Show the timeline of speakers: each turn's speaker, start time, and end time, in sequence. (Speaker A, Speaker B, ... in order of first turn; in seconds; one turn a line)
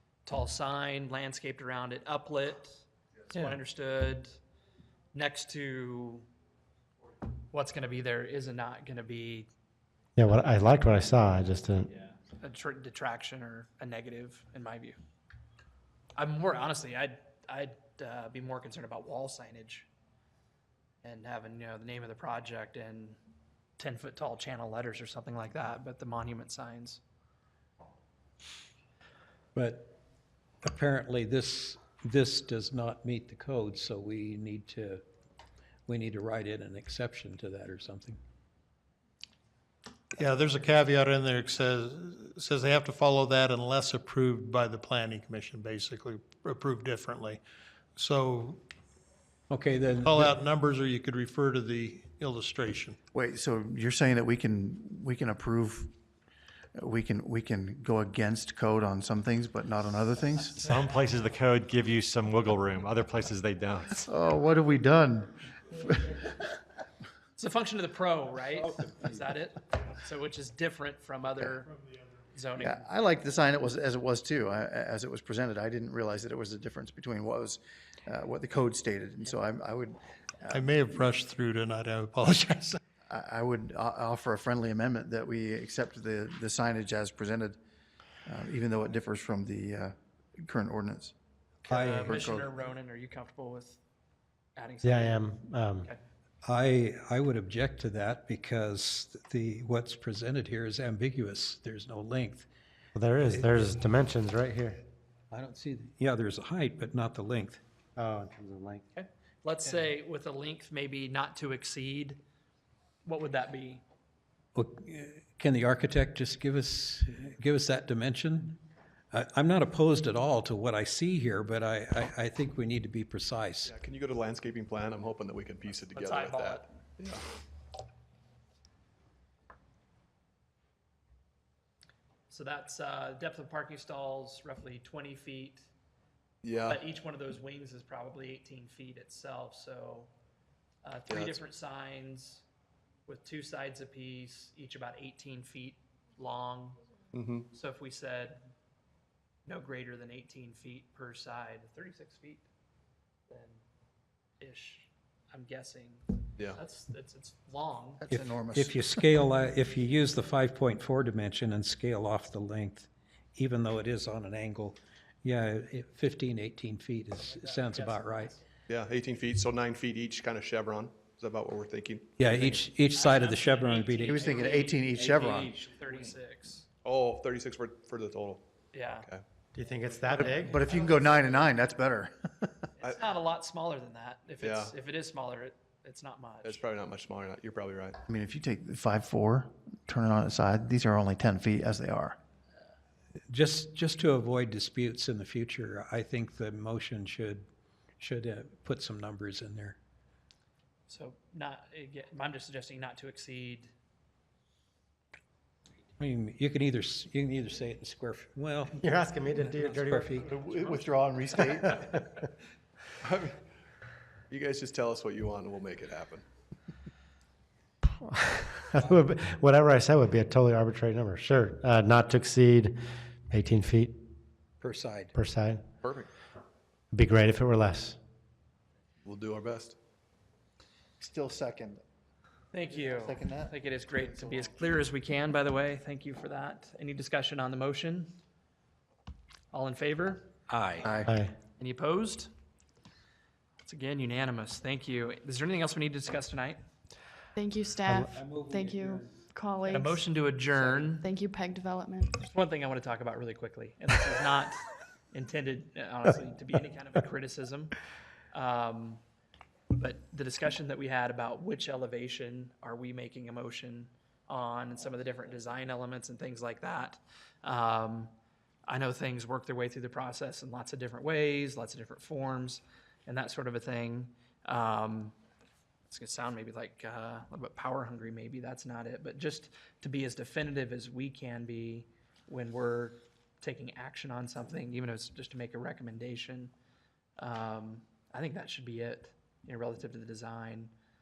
Speaker A: 0.3-4.3
Speaker B: 3.3-3.6
Speaker A: 5.1-6.3
Speaker A: 7.5-9.5
Speaker C: 10.2-11.9
Speaker A: 11.9-15.0
Speaker A: 16.2-19.9
Speaker A: 21.0-23.2
Speaker A: 23.8-27.0
Speaker B: 29.6-29.9
Speaker B: 30.6-35.0
Speaker B: 35.9-38.2
Speaker D: 40.2-47.4
Speaker D: 48.0-48.6
Speaker B: 49.5-50.3
Speaker D: 50.0-53.0
Speaker E: 53.1-55.9
Speaker E: 56.8-60.7
Speaker F: 60.6-64.0
Speaker E: 64.0-66.3
Speaker A: 67.4-71.7
Speaker D: 71.7-72.1
Speaker A: 72.3-72.8
Speaker E: 72.6-80.7
Speaker D: 80.5-82.8
Speaker E: 83.1-87.6
Speaker E: 88.3-91.1
Speaker A: 91.6-93.8
Speaker B: 91.7-92.2
Speaker E: 92.0-92.5
Speaker A: 94.6-96.0
Speaker C: 94.8-95.9
Speaker B: 96.4-102.5
Speaker C: 103.0-104.8
Speaker B: 103.2-103.5
Speaker B: 105.3-107.6
Speaker C: 108.0-108.8
Speaker A: 108.9-112.2
Speaker A: 113.0-113.8
Speaker B: 114.5-118.6
Speaker B: 119.1-123.7
Speaker G: 123.7-127.2
Speaker A: 125.8-126.7
Speaker A: 132.3-135.7
Speaker G: 136.4-136.8
Speaker A: 136.6-140.1
Speaker A: 140.8-142.4
Speaker A: 143.1-146.8
Speaker A: 147.5-148.4
Speaker A: 149.5-152.5
Speaker A: 153.3-153.6
Speaker A: 154.4-158.1
Speaker E: 158.0-159.0
Speaker B: 158.1-168.3
Speaker A: 167.4-168.3
Speaker G: 168.7-172.1
Speaker B: 172.2-174.4
Speaker A: 172.3-176.7
Speaker E: 174.0-175.6
Speaker G: 176.8-178.4
Speaker A: 178.7-179.1
Speaker C: 179.6-180.5
Speaker A: 179.6-181.4
Speaker E: 180.2-182.6
Speaker A: 182.8-186.6
Speaker G: 184.4-184.7
Speaker G: 186.4-188.0
Speaker E: 188.1-192.2
Speaker B: 193.3-197.4
Speaker B: 198.0-199.8
Speaker A: 200.9-203.7
Speaker B: 206.0-210.2
Speaker C: 208.8-210.3
Speaker A: 209.4-211.8
Speaker E: 210.2-212.0
Speaker G: 213.0-213.3
Speaker G: 214.3-216.2
Speaker C: 218.1-222.8
Speaker B: 218.7-219.0
Speaker C: 223.3-224.0
Speaker B: 224.6-225.1
Speaker C: 225.2-225.6
Speaker C: 226.9-228.0
Speaker G: 229.1-229.8
Speaker E: 231.0-231.8
Speaker A: 232.5-238.1
Speaker E: 232.7-234.5
Speaker A: 239.5-240.3
Speaker B: 240.5-240.9
Speaker E: 240.8-241.1
Speaker C: 241.1-241.3
Speaker A: 241.6-242.3
Speaker A: 243.6-246.6
Speaker H: 247.4-250.2
Speaker B: 248.1-249.2
Speaker A: 249.7-251.1
Speaker B: 250.5-250.9
Speaker H: 251.0-252.2
Speaker A: 252.2-257.8
Speaker A: 258.3-259.0
Speaker A: 259.7-268.1
Speaker A: 268.7-275.2
Speaker A: 275.9-286.5
Speaker A: 287.2-290.7